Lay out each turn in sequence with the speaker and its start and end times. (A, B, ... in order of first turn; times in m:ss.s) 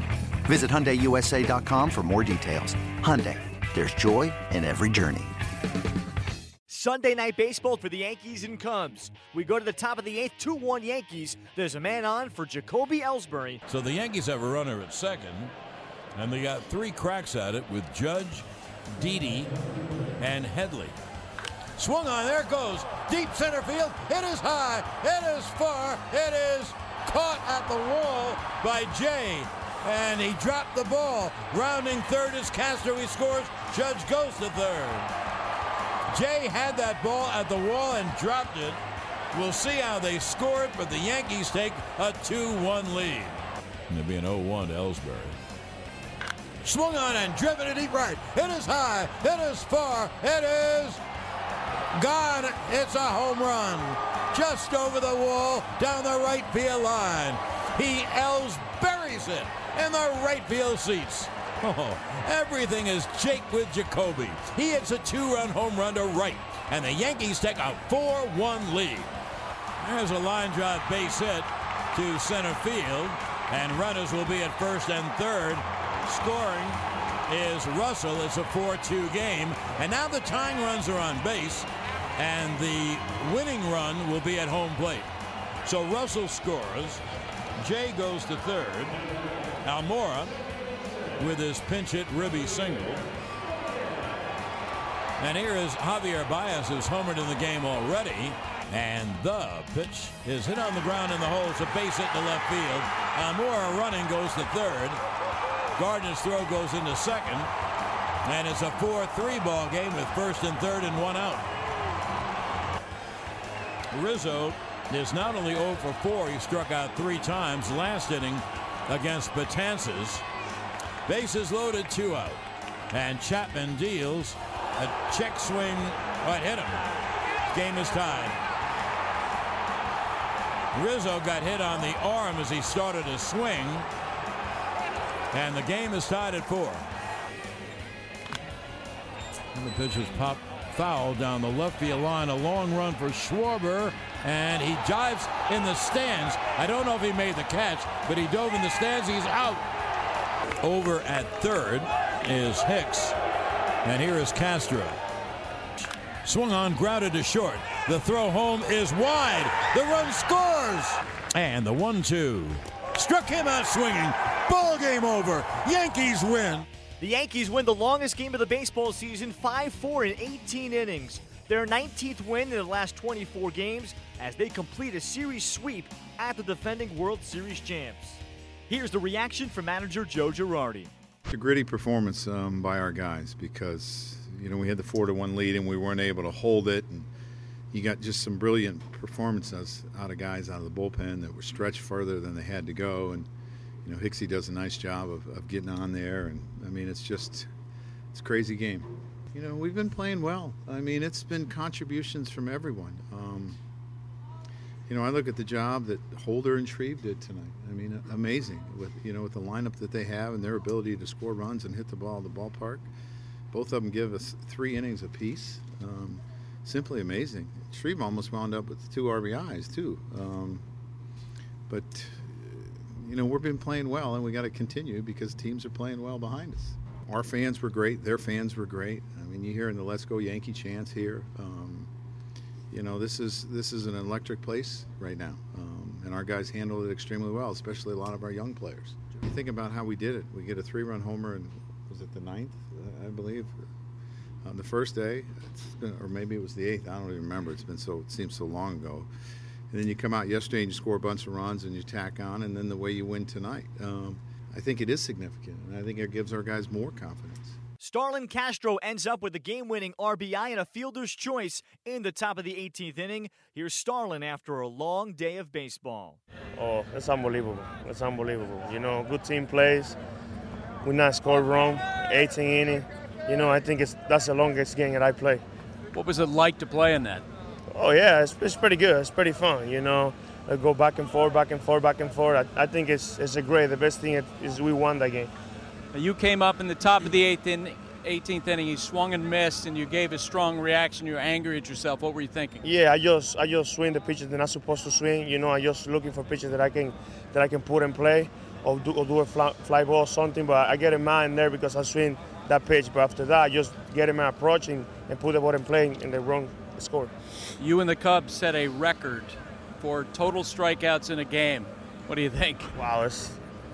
0:00.4-0:05.4 A
0:06.7-0:13.6 B
0:13.7-0:15.5 C
0:16.1-0:19.5 C
0:20.2-0:20.9 C
0:21.8-0:35.1 C
0:36.1-0:38.8 C
0:39.3-0:43.4 C
0:43.9-0:45.4 C
0:46.6-0:51.0 C
0:51.9-1:09.1 C
1:09.8-1:25.1 C
1:25.6-1:27.0 C
1:27.6-1:29.0 C
1:29.6-1:30.4 C
1:31.2-1:33.0 C
1:35.2-1:45.0 C
1:45.8-1:47.5 C
1:48.2-1:51.4 C
1:53.9-2:00.2 C
2:01.0-2:06.8 C
2:07.5-2:08.4 C
2:10.7-2:13.9 C
2:15.3-2:16.8 C
2:19.5-2:29.6 C
2:30.6-2:33.2 C
2:33.8-2:35.0 C
2:36.2-2:46.6 C
2:47.0-3:00.9 B
3:01.3-3:07.1 D
3:07.7-3:13.3 D
3:13.8-3:17.5 D
3:18.1-3:23.6 D
3:24.9-3:32.9 D
3:33.5-3:40.6 D
3:41.7-3:51.9 D
3:52.7-4:03.5 D
4:04.4-4:09.1 D
4:09.7-4:17.6 D
4:17.8-4:26.2 B
4:26.5-4:30.0 E
4:30.8-4:35.4 E
4:35.9-4:37.2 F
4:37.7-4:45.3 E
4:45.9-4:52.6 F
4:52.6-5:07.1 E
5:07.6-5:12.7 F
5:12.7-5:13.4 E